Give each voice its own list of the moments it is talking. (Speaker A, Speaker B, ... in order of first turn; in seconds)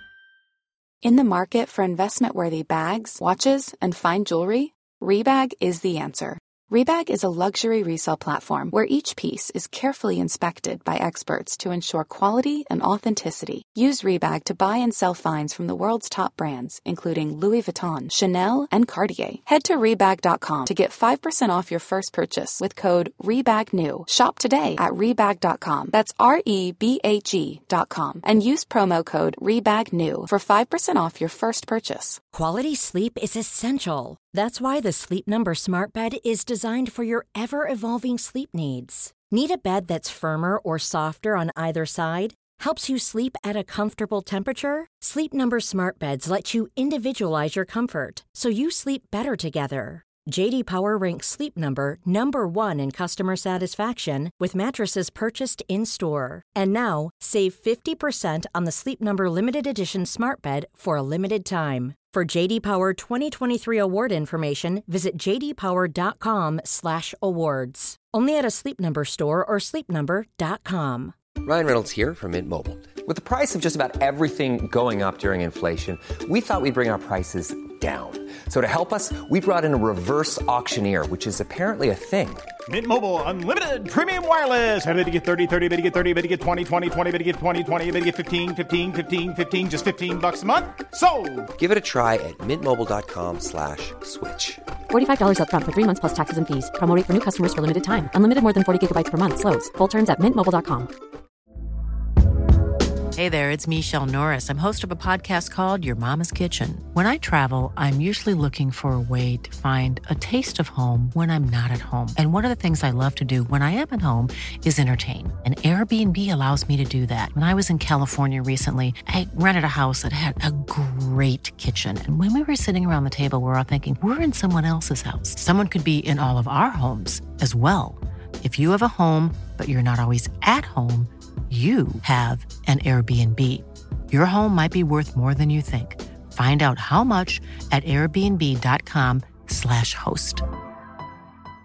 Speaker A: 1.0-32.2
Speaker B: 32.3-71.1
Speaker C: 71.4-82.5, 91.6-94.6
Speaker D: 82.7-91.5
Speaker E: 94.9-100.9
Speaker F: 103.2-140.4